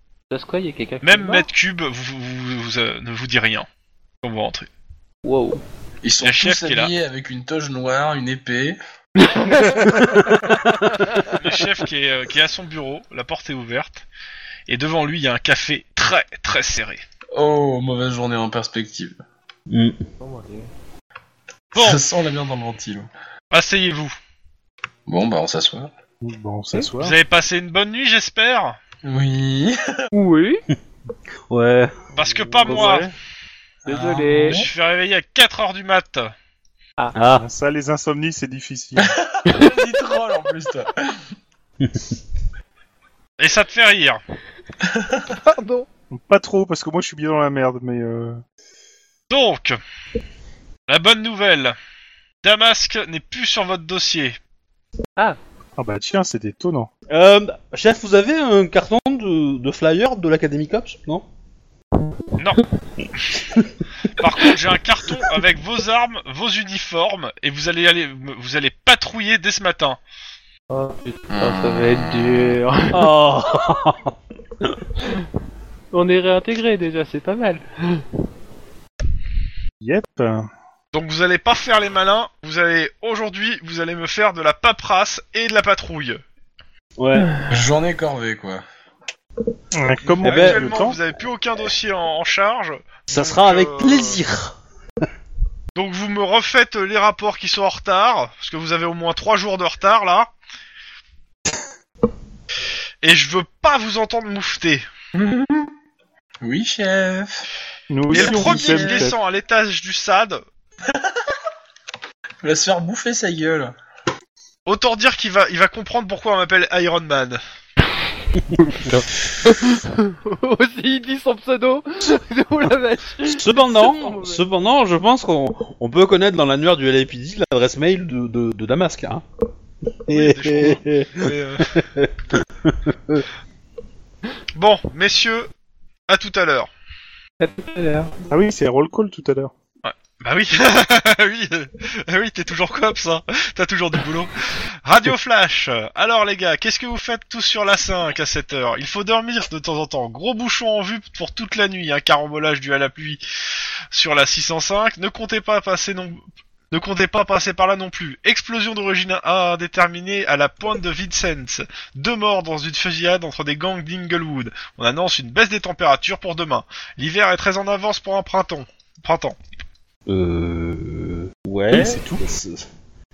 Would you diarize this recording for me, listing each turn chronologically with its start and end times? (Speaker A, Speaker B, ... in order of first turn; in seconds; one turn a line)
Speaker A: 0.3-1.5
Speaker B: 1.0-3.7
Speaker B: 4.2-4.7
Speaker A: 5.2-5.6
Speaker C: 6.0-8.8
Speaker B: 6.2-6.9
Speaker A: 9.2-10.4
Speaker B: 11.2-14.1
Speaker B: 14.7-17.0
Speaker C: 17.4-19.2
Speaker D: 19.7-20.0
Speaker A: 20.2-20.7
Speaker B: 21.7-22.0
Speaker C: 21.7-23.1
Speaker B: 23.5-24.1
Speaker C: 25.1-25.9
Speaker E: 26.2-27.1
Speaker B: 27.0-28.8
Speaker C: 29.0-30.1
Speaker A: 30.1-30.6
Speaker D: 31.5-31.9
Speaker B: 32.1-33.1
Speaker E: 32.2-33.1
Speaker A: 33.9-34.6
Speaker C: 33.9-34.7
Speaker B: 34.4-36.3
Speaker D: 37.1-37.5
Speaker E: 37.4-39.1
Speaker C: 39.0-41.2
Speaker A: 39.5-39.7
Speaker D: 41.8-42.1
Speaker B: 43.4-44.2
Speaker C: 44.9-45.3
Speaker A: 45.4-45.9
Speaker E: 46.1-48.4
Speaker B: 49.3-49.8
Speaker B: 50.9-51.8
Speaker B: 52.4-54.4
Speaker E: 55.8-56.9
Speaker D: 57.1-61.2
Speaker B: 62.4-62.6
Speaker B: 64.1-70.0
Speaker A: 70.7-73.1
Speaker C: 71.3-72.0
Speaker D: 72.9-74.1
Speaker A: 75.9-78.0
Speaker E: 79.8-80.5
Speaker B: 80.9-86.2
Speaker D: 87.0-87.3
Speaker A: 87.2-87.5
Speaker C: 87.5-88.6
Speaker E: 89.7-91.0
Speaker D: 90.2-90.7
Speaker B: 90.2-94.2
Speaker D: 93.1-94.6
Speaker B: 95.7-100.3
Speaker B: 103.0-104.8
Speaker C: 105.1-105.7
Speaker C: 106.4-107.5
Speaker E: 107.9-109.2
Speaker C: 108.1-109.1
Speaker B: 108.1-110.4
Speaker C: 112.4-113.7
Speaker B: 114.7-117.4
Speaker A: 118.6-124.4
Speaker D: 123.3-129.2
Speaker D: 130.1-133.3
Speaker B: 130.1-131.8
Speaker B: 134.6-135.5
Speaker B: 136.1-136.7
Speaker A: 137.4-138.1
Speaker E: 138.3-139.5
Speaker B: 139.8-153.2
Speaker B: 153.9-169.4
Speaker D: 170.1-172.7
Speaker E: 171.7-172.2